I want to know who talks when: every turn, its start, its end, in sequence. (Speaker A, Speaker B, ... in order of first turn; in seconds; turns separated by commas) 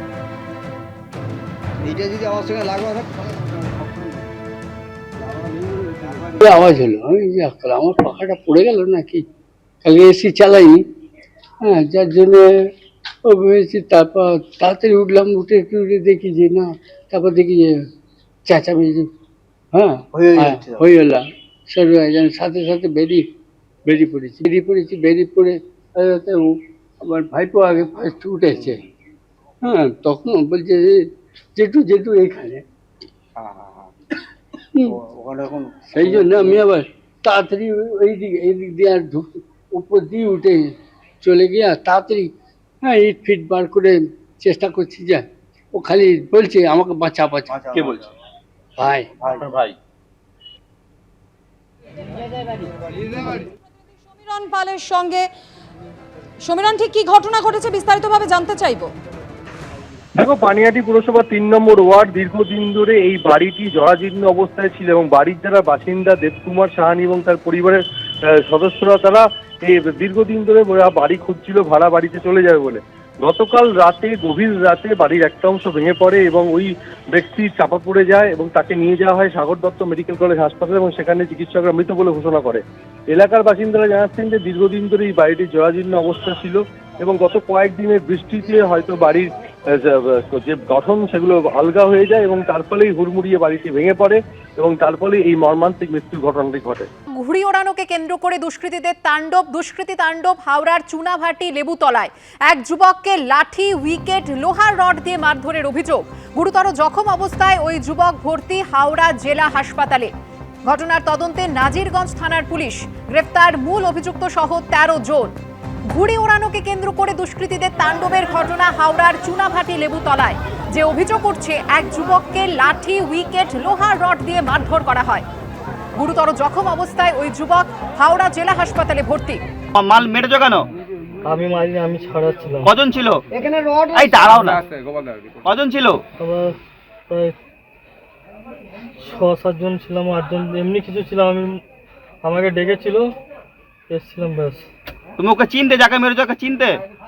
Speaker A: 1.8-4.2, Speaker A: 5.2-6.4, Speaker B: 6.4-9.2, Speaker B: 9.8-10.8, Speaker B: 11.6-12.7, Speaker B: 13.2-17.8, Speaker B: 18.4-19.1, Speaker B: 19.7-23.3, Speaker A: 20.2-20.8, Speaker B: 23.9-28.8, Speaker B: 29.6-31.0, Speaker B: 31.6-32.6, Speaker A: 33.4-33.9, Speaker A: 34.9-36.6, Speaker B: 35.9-42.3, Speaker B: 42.8-47.8, Speaker A: 47.5-48.1, Speaker B: 48.8-49.1, Speaker A: 49.2-49.6, Speaker C: 54.1-55.3, Speaker C: 56.4-58.9, Speaker D: 60.2-67.8, Speaker D: 68.5-89.3, Speaker D: 89.8-96.9, Speaker E: 97.2-110.1, Speaker E: 110.7-115.3, Speaker E: 115.9-125.2, Speaker E: 126.0-129.4, Speaker F: 129.7-130.7, Speaker G: 131.2-132.7, Speaker F: 132.6-134.6, Speaker F: 135.4-136.0, Speaker G: 136.2-137.3, Speaker G: 139.0-141.6, Speaker G: 142.2-143.1, Speaker G: 143.9-144.7, Speaker F: 145.2-146.8